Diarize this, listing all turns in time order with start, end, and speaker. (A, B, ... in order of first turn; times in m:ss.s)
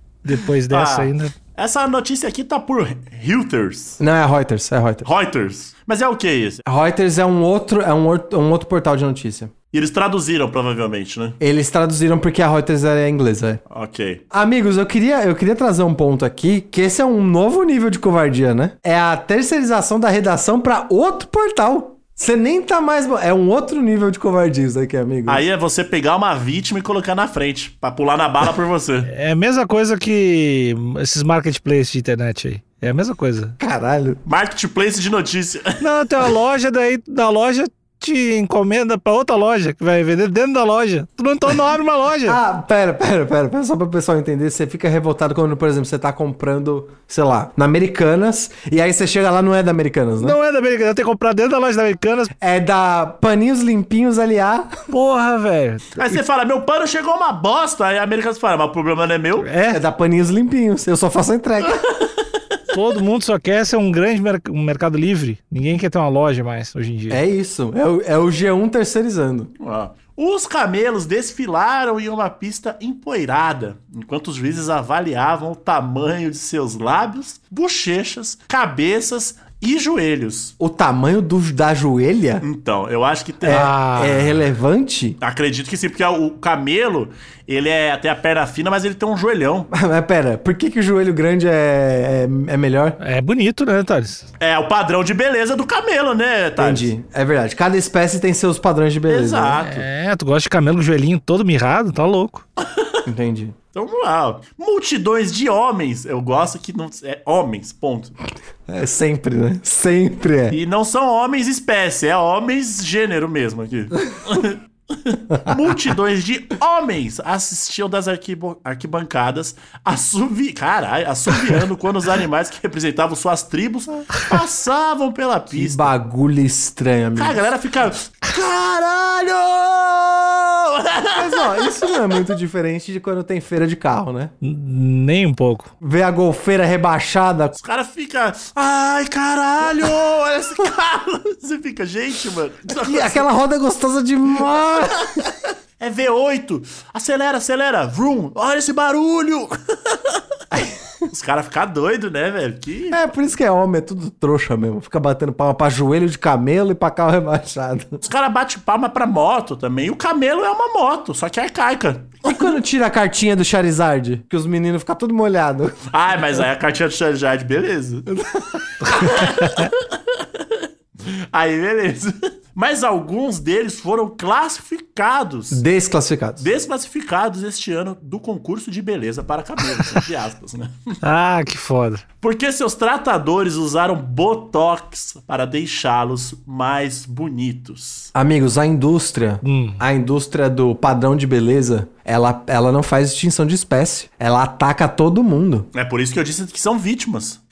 0:00.2-0:01.3 A
0:00.7-0:04.0 B
0:04.0-0:05.1 C
0:05.0-0:06.6 B
0:06.7-0:09.5 C
0:09.7-0:11.4 B
0:11.4-0:13.6 C
0:13.7-0:14.2 B
0:14.3-0:25.4 C
0:25.3-0:29.1 B
0:29.1-0:33.6 A
0:33.6-0:34.2 C
0:34.3-0:35.8 B
0:35.8-0:42.4 A
0:42.2-0:50.4 C
0:50.2-0:52.3 A
0:52.4-0:54.8 C
0:54.9-0:56.0 A
0:56.0-0:59.5 B
0:59.4-0:59.8 A
0:59.7-1:01.9 C
1:02.7-1:07.2 A
1:07.1-1:09.5 C
1:09.6-1:20.5 B
1:20.6-1:22.4 C
1:22.4-1:23.7 B
1:23.4-1:25.2 C
1:23.5-1:24.4 A
1:25.2-1:29.7 B
1:29.7-1:33.0 C
1:33.0-1:34.3 A
1:34.4-1:36.9 B
1:36.6-1:39.6 C
1:39.1-1:39.9 B
1:39.6-1:42.4 A
1:42.6-1:43.0 B
1:43.1-1:43.6 C
1:43.7-1:48.2 B
1:48.7-1:50.6 C
1:50.5-2:05.9 B
2:05.5-2:07.5 C
2:07.2-2:11.8 B
2:11.2-2:14.3 C
2:14.4-2:15.7 A
2:15.8-2:17.6 C
2:17.6-2:23.3 B
2:22.8-2:25.2 C
2:25.1-2:30.2 B
2:31.1-2:33.0 B
2:32.9-2:38.0 C
2:38.0-2:42.4 B
2:42.2-2:45.8 C
2:45.9-2:48.1 B
2:48.1-2:49.0 C
2:48.8-2:55.6 B
2:55.5-2:56.5 C
2:56.4-3:01.0 B
3:01.0-3:02.0 A
3:02.2-3:08.1 B
3:08.1-3:15.7 C
3:09.4-3:09.8 A
3:15.7-3:17.4 B